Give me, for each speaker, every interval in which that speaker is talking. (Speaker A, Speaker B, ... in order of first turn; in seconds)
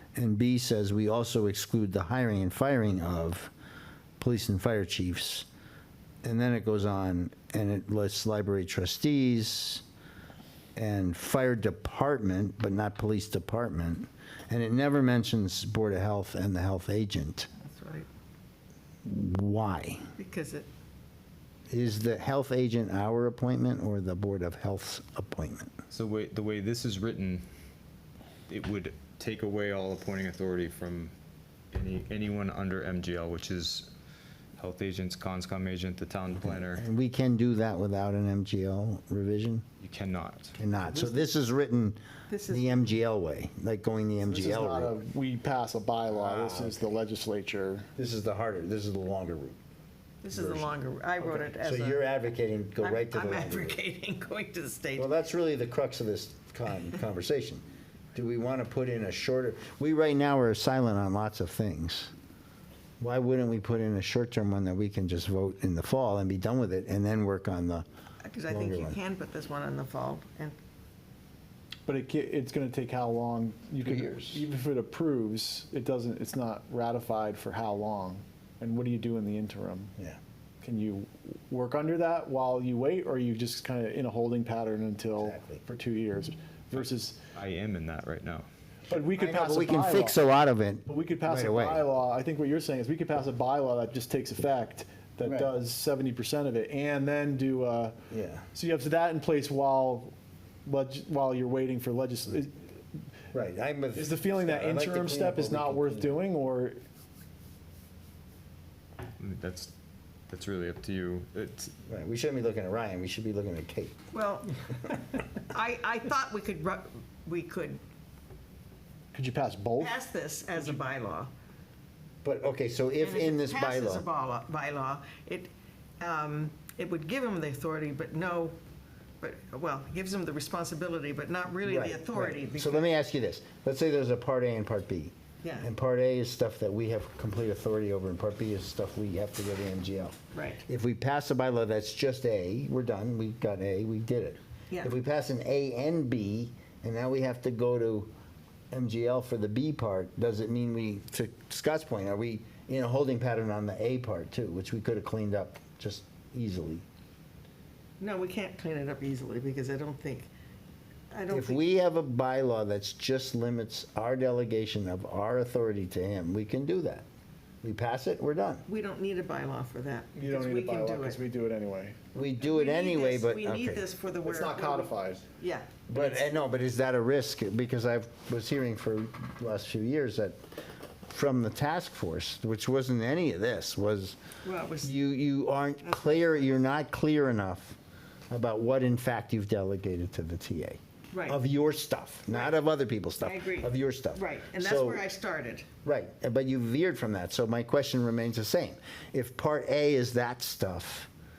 Speaker A: 0.1-3.5, 4.2-5.5, 6.2-9.8, 10.8-17.5, 19.1-20.1, 21.7-25.7, 36.4-39.6, 40.6-44.9, 46.2-46.8, 48.0-49.6, 50.3-53.8, 55.0-57.6, 58.1-62.1, 63.0-67.8, 68.5-69.0, 73.8-74.4, 85.2-85.6, 88.9-91.8, 98.1-98.5, 103.3-106.2, 111.9-114.0, 122.2-124.0, 131.7-148.1, 148.7-156.8, 161.3-167.1, 167.6-168.7, 172.1-173.8, 175.9-180.4, 181.1-184.2, 184.8-187.8, 188.3-195.0, 195.8-201.1
Speaker B: 17.6-18.1, 20.2-20.7, 42.3-42.7, 50.2-52.1, 52.8-55.1, 68.2-70.6, 114.1-114.5, 115.5-117.8, 119.8-121.3, 123.0-128.6, 129.2-132.9, 135.4-135.7, 140.3-140.6, 158.0-160.3, 161.1-161.7, 168.7-171.2, 172.4-176.2, 184.4-184.9, 185.8-186.5, 191.1-191.4, 193.2-195.7
Speaker C: 25.9-27.4, 28.5-31.1, 31.7-33.9, 34.6-36.8, 39.8-40.6, 87.3-88.5, 109.2-109.7, 110.3-111.7
Speaker D: 44.2-47.9, 71.8-79.9, 80.6-87.2, 88.9-90.2, 90.8-98.0, 98.5-100.1, 100.6-103.0, 103.9-106.8, 119.1-120.0, 170.2-172.0, 174.2-175.2